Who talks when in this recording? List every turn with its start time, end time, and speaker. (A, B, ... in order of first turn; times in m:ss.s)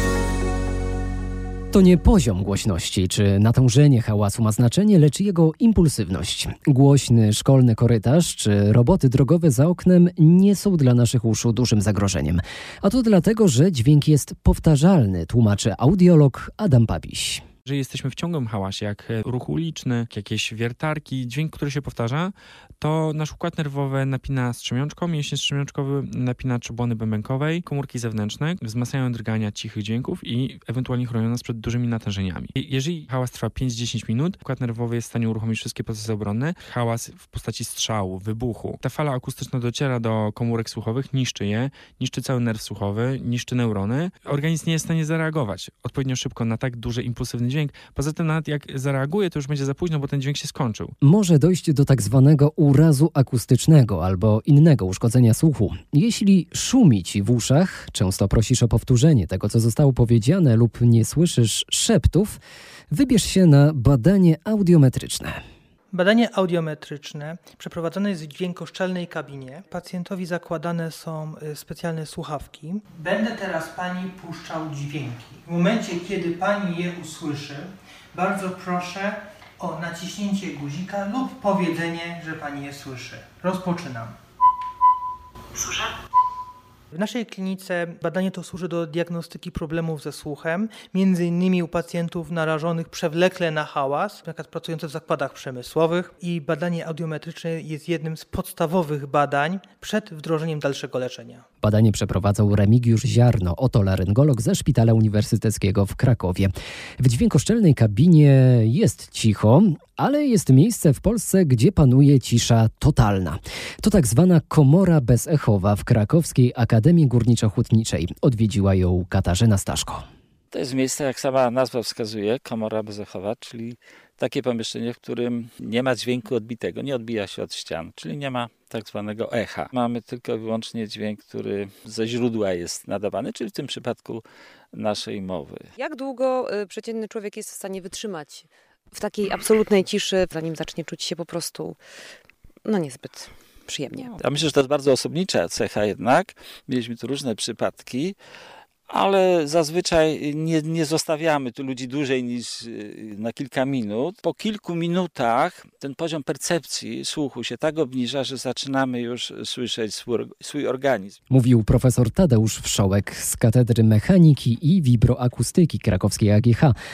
0:01.7-0:17.4 A
0:17.7-0:51.0 B
0:51.0-1:02.4 A
1:02.9-1:05.4 A
1:05.9-1:24.2 C
1:25.6-1:25.9 C
1:26.9-1:41.4 C
1:41.6-2:00.0 A
2:00.5-2:15.7 D
2:15.8-2:21.8 E
2:22.6-2:24.2 E
2:24.0-2:28.2 D
2:28.9-2:41.2 D
2:41.3-2:46.8 A